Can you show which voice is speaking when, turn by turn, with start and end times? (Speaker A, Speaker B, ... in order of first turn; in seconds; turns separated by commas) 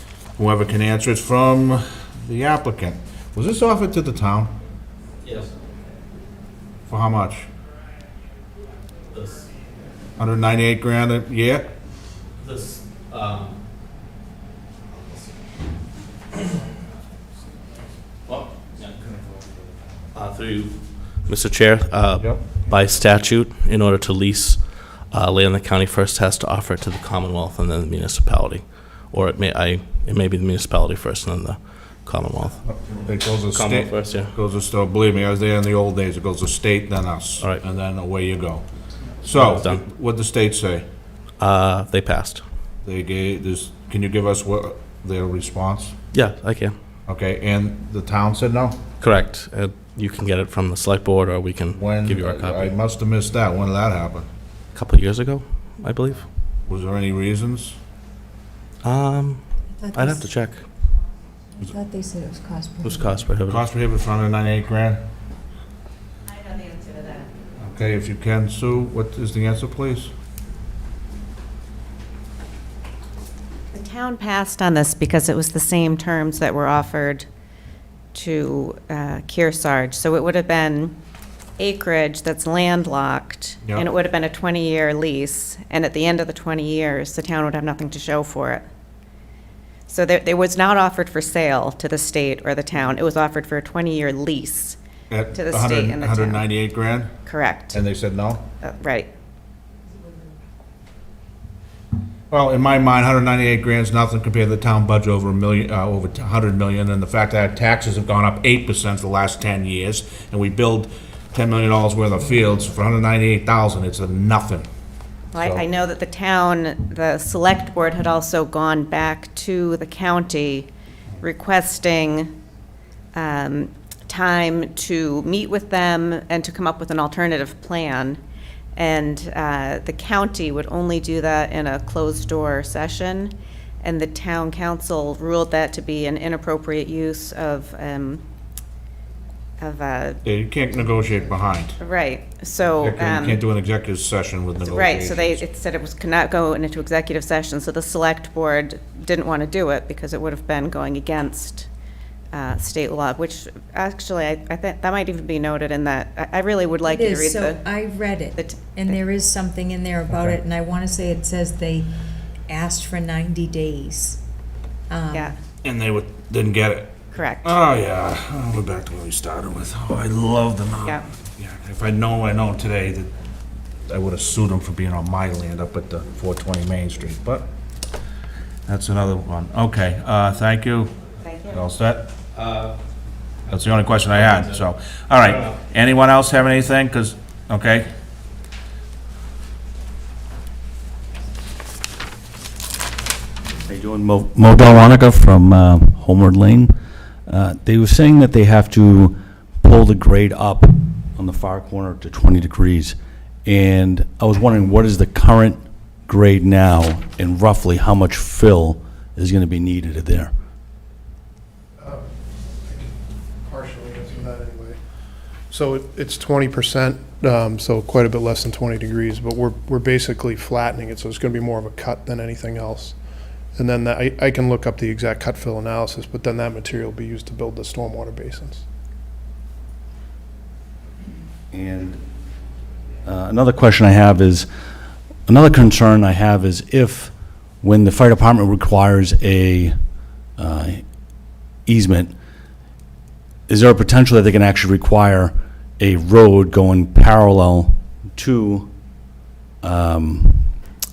Speaker A: 0.4-4.5, Speaker A: 6.9-7.5, Speaker A: 10.2-11.7, Speaker B: 12.4-13.5, Speaker B: 20.1-32.6, Speaker A: 33.0-38.6, Speaker B: 33.5-34.3, Speaker A: 39.2-40.8, Speaker B: 39.4-39.8, Speaker B: 41.4-42.4, Speaker A: 42.8-45.9, Speaker B: 46.1-46.8, Speaker A: 47.1-48.8, Speaker B: 49.0-52.7, Speaker A: 51.8-54.3, Speaker B: 54.7-56.2, Speaker A: 56.6-57.8, Speaker B: 58.8-59.4, Speaker C: 59.7-60.2, Speaker B: 59.9-60.6, Speaker C: 61.5-63.1, Speaker B: 62.8-63.6, Speaker A: 63.5-65.0, Speaker D: 66.3-67.3, Speaker A: 67.6-70.1, Speaker D: 73.7-77.3, Speaker D: 78.1-80.9, Speaker D: 81.6-88.6, Speaker D: 89.9-94.8, Speaker A: 95.1-97.1, Speaker D: 95.3-96.4, Speaker D: 97.2-97.8, Speaker A: 97.7-98.4, Speaker D: 98.6-99.1, Speaker A: 102.3-114.7, Speaker D: 115.3-120.7, Speaker A: 115.3-115.6, Speaker D: 121.2-122.3, Speaker D: 123.1-128.2, Speaker D: 128.8-138.2, Speaker D: 139.6-140.2, Speaker A: 140.2-141.8, Speaker D: 141.8-143.4, Speaker A: 142.8-145.4, Speaker D: 144.6-151.7, Speaker D: 152.3-157.6, Speaker C: 156.8-161.9, Speaker D: 158.3-159.0, Speaker A: 160.1-160.3, Speaker C: 162.5-164.2, Speaker C: 164.9-165.3, Speaker A: 165.6-173.1, Speaker D: 167.1-167.5, Speaker A: 173.9-177.4, Speaker A: 178.7-180.9, Speaker D: 181.2-181.6, Speaker A: 181.5-182.1, Speaker A: 183.5-187.9, Speaker E: 193.7-196.7, Speaker E: 197.3-210.3, Speaker F: 211.8-214.8, Speaker F: 215.5-222.9, Speaker F: 223.5-228.6, Speaker E: 231.5-232.0, Speaker E: 233.0-234.5, Speaker E: 235.3-239.8, Speaker E: 240.4-240.8, Speaker E: 241.7-242.1, Speaker E: 243.5-248.7, Speaker E: 249.6-250.5